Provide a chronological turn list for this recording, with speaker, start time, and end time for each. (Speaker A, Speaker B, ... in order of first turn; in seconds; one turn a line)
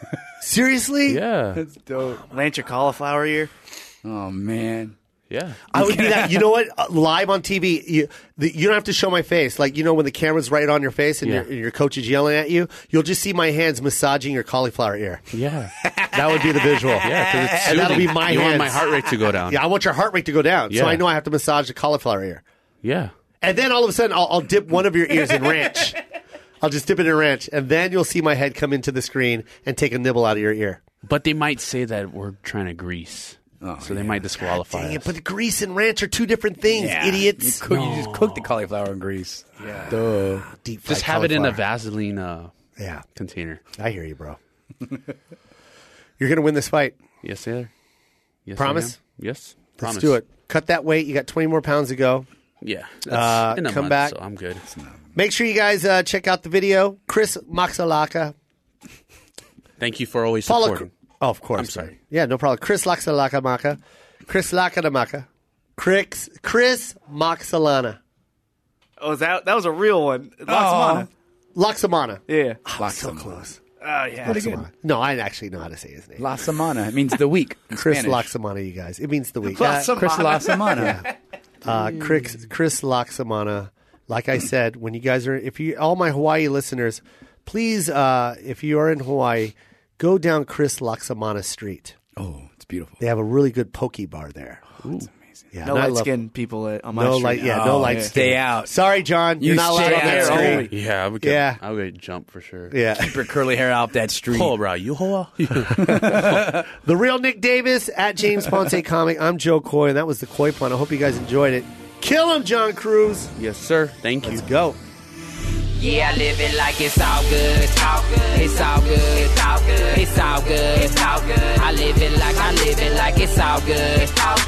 Speaker A: 0.4-1.2
Speaker B: 1.1-1.6
Speaker C: 1.6-2.2
Speaker D: 2.3-3.5
Speaker C: 4.0-5.0
Speaker B: 5.3-5.7
Speaker A: 5.7-15.2
Speaker C: 5.8-6.4
Speaker B: 11.2-11.5
Speaker B: 15.3-15.8
Speaker C: 15.8-18.6
Speaker A: 16.1-22.4
Speaker B: 17.0-19.6
Speaker B: 20.7-21.0
Speaker B: 22.8-23.1
Speaker A: 23.4-26.0
Speaker A: 26.6-30.8
Speaker B: 31.1-35.1
Speaker C: 33.6-34.3
Speaker A: 34.5-37.6
Speaker C: 36.7-40.5
Speaker B: 37.7-38.5
Speaker A: 40.5-41.6
Speaker B: 40.9-42.5
Speaker A: 42.8-43.0
Speaker B: 43.1-43.6
Speaker A: 43.7-44.4
Speaker A: 46.2-47.0
Speaker B: 47.2-47.7
Speaker B: 48.5-50.2
Speaker A: 48.6-49.0
Speaker A: 49.8-52.3
Speaker B: 52.6-54.6
Speaker A: 53.1-54.1
Speaker C: 54.7-55.0
Speaker A: 55.1-58.4
Speaker B: 59.8-60.9
Speaker A: 60.5-68.0
Speaker B: 61.5-61.9
Speaker D: 69.0-71.1
Speaker C: 70.5-71.1
Speaker A: 71.5-73.6
Speaker D: 72.3-72.6
Speaker C: 72.8-73.5
Speaker D: 73.8-74.6
Speaker A: 74.2-76.2
Speaker C: 74.3-74.6
Speaker C: 76.2-78.3
Speaker A: 77.7-79.9
Speaker D: 79.5-81.0
Speaker C: 79.9-81.0
Speaker A: 80.7-81.1
Speaker A: 81.6-92.0
Speaker C: 92.2-93.0
Speaker A: 93.0-94.7
Speaker C: 94.9-95.5
Speaker A: 95.5-96.1
Speaker D: 95.6-98.2
Speaker A: 96.9-100.7
Speaker C: 97.5-98.7
Speaker C: 99.4-100.7
Speaker D: 99.5-100.8
Speaker B: 100.7-102.8
Speaker A: 101.2-101.6
Speaker A: 102.7-103.3
Speaker C: 103.0-104.5
Speaker B: 104.3-106.6
Speaker C: 105.7-106.6
Speaker A: 106.7-113.3
Speaker B: 113.4-114.5
Speaker A: 114.2-114.8
Speaker E: 116.0-117.4
Speaker E: 118.1-123.7